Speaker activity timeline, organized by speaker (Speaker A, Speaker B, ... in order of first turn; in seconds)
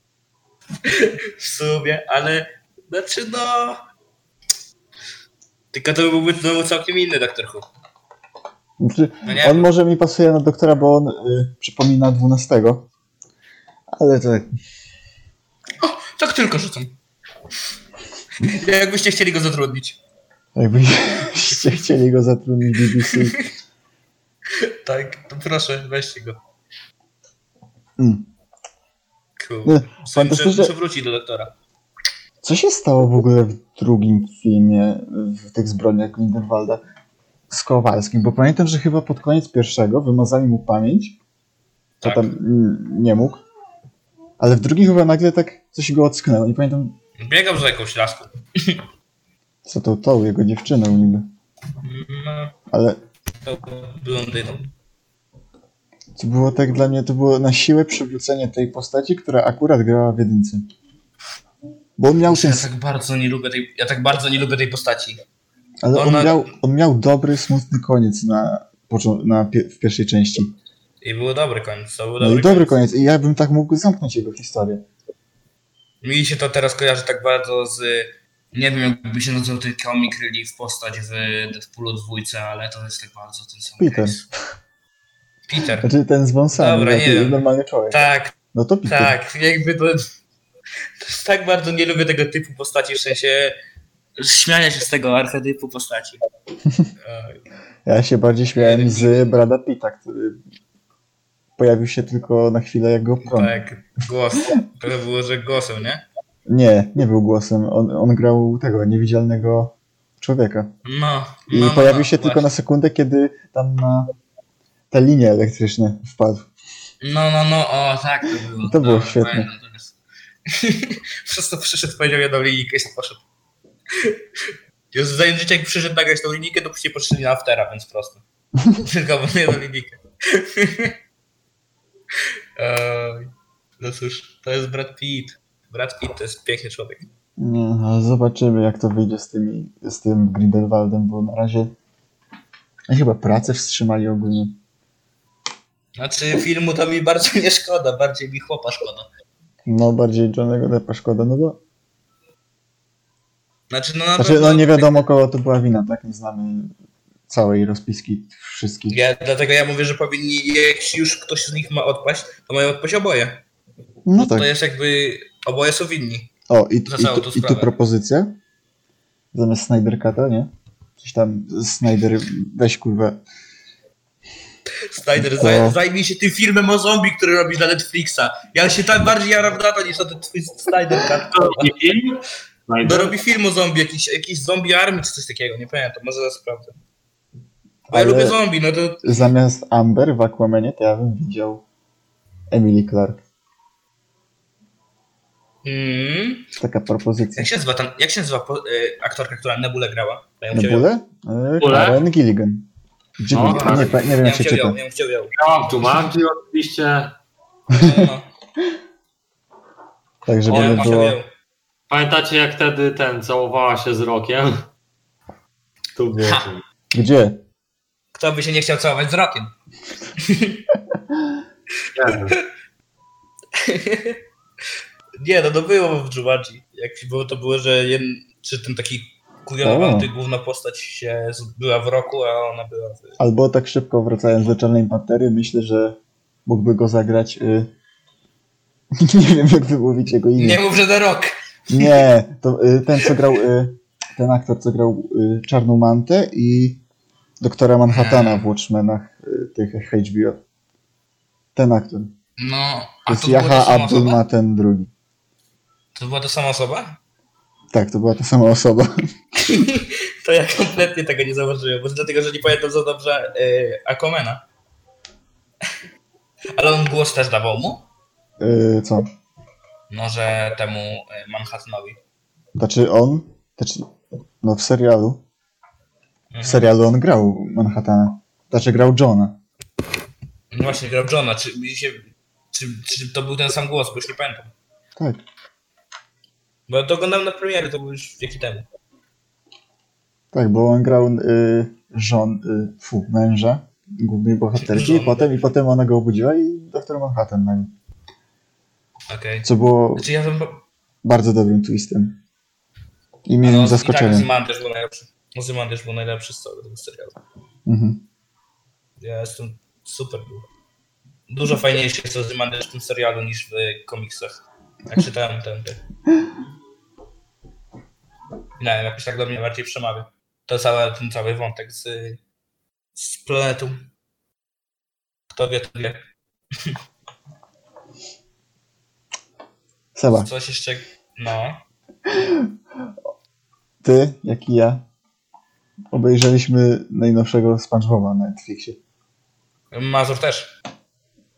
Speaker A: 0.8-3.8, 5.7-7.7, 9.3-9.7, 15.8-16.9, 18.4-20.0, 23.1-23.5, 24.5-26.4, 29.4-31.5, 42.0-42.3, 47.2-48.8, 51.8-52.5, 53.5-54.7, 62.3-65.2, 65.9-66.5, 71.0-72.8, 76.0-84.2, 85.5-85.9, 86.5-88.3, 88.9-90.1, 91.0-93.5, 94.2-96.2, 97.0-97.4, 98.6-99.3, 103.2-106.0, 110.8-112.5, 117.0-120.0, 120.5-123.2, 123.9-128.2, 128.8-130.9, 132.2-137.1, 146.0-149.1, 153.7-155.1, 158.9-163.4, 164.2-166.3, 166.9-167.7, 174.9-181.7, 182.8-186.8, 187.9-189.0, 195.6-196.5, 197.4-200.9, 203.5-205.3, 207.8-208.3, 210.4-211.3, 218.1-219.5, 220.2-220.6, 223.5-224.2, 225.2-233.2, 240.4-242.0, 247.9-248.5, 252.4-254.2, 255.9-257.0, 259.5-264.4, 266.6-267.9, 269.9-272.0, 276.3-276.7, 280.5-284.5, 286.7-288.6, 294.6-295.3, 299.1-300.6, 303.4-307.2, 309.0-310.5, 311.3-315.8, 318.6-322.2, 323.0-323.9, 325.3-326.0, 330.1-331.6, 339.7-340.5
Speaker B: 8.8-12.9, 13.9-14.5, 20.6-23.4, 28.0-28.3, 29.6-30.7, 32.4-36.8, 37.5-41.2, 42.0-43.4, 44.4-47.0, 49.6-51.3, 52.7-53.0, 56.2-60.7, 62.0-62.7, 65.8-70.5, 72.2-74.8, 83.8-84.3, 85.8-89.1, 97.9-100.4, 101.6-103.5, 106.5-110.7, 111.5-114.1, 114.9-116.5, 118.6-119.5, 137.4-141.7, 142.9-144.6, 149.7-151.6, 154.2-156.7, 157.3-159.0, 164.1-164.5, 166.5-168.3, 169.3-173.2, 175.2-175.8, 187.9-188.4, 189.0-191.6, 192.5-193.2, 196.6-197.5, 200.5-204.8, 207.7-208.1, 210.3-211.2, 216.9-217.4, 229.6-230.1, 233.2-237.7, 239.0-240.6, 241.7-246.8, 247.4-250.4, 251.6-252.1, 253.1-254.9, 257.7-258.9, 268.4-269.1, 272.6-273.9, 274.4-275.2, 276.4-279.4, 285.0-285.2, 290.3-297.7, 299.4-300.1, 301.0-302.2, 303.3-304.3, 307.7-308.0, 329.9-330.3, 332.1-332.5, 333.8-334.8, 335.9-338.8
Speaker C: 181.3-183.1, 201.6-202.0, 203.3-204.0, 205.3-207.2, 211.9-214.7, 216.0-216.6, 221.9-222.4